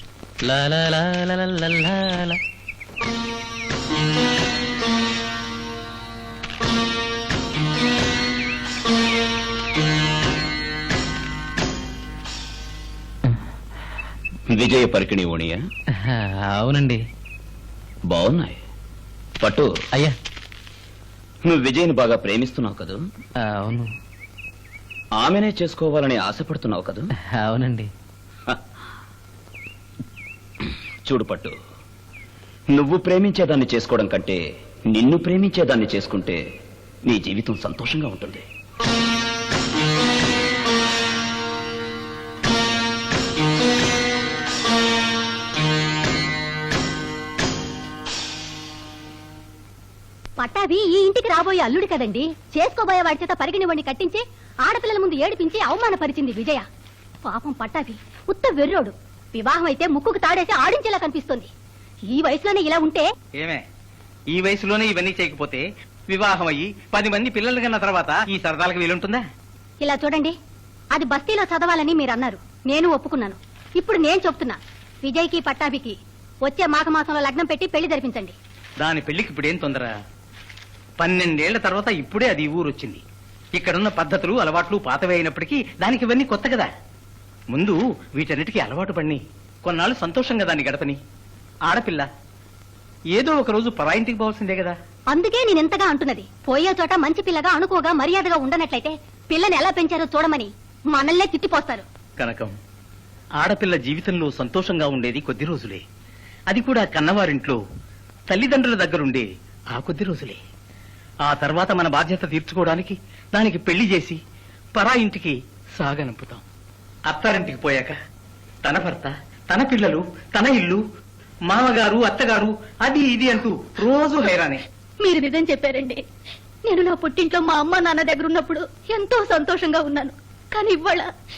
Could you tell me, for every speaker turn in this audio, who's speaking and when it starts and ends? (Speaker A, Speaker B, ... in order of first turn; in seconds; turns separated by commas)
Speaker A: 0.4-2.4, Speaker B: 14.5-15.6, Speaker A: 16.1-17.0, Speaker B: 18.1-18.6, Speaker B: 19.4-19.7, Speaker B: 21.5-23.0, Speaker A: 23.4-23.9, Speaker B: 25.2-27.1, Speaker A: 27.4-27.9, Speaker B: 31.1-31.5, Speaker B: 32.7-34.4, Speaker B: 34.9-36.4, Speaker B: 37.1-38.5, Speaker C: 50.4-56.6, Speaker C: 57.2-61.5, Speaker C: 62.1-63.1, Speaker D: 63.4-63.6, Speaker D: 64.3-69.2, Speaker C: 69.8-70.3, Speaker C: 70.9-78.4, Speaker D: 78.8-79.9, Speaker D: 81.0-83.0, Speaker D: 83.6-86.7, Speaker D: 87.5-91.0, Speaker D: 91.7-92.1, Speaker D: 93.2-94.8, Speaker C: 95.1-101.8, Speaker D: 102.2-102.5, Speaker D: 103.4-105.8, Speaker D: 106.5-107.6, Speaker D: 108.3-110.4, Speaker D: 111.2-114.2, Speaker D: 114.8-116.4, Speaker D: 117.1-117.9, Speaker D: 118.7-120.8, Speaker D: 121.5-124.6, Speaker C: 125.0-126.0, Speaker C: 126.7-131.1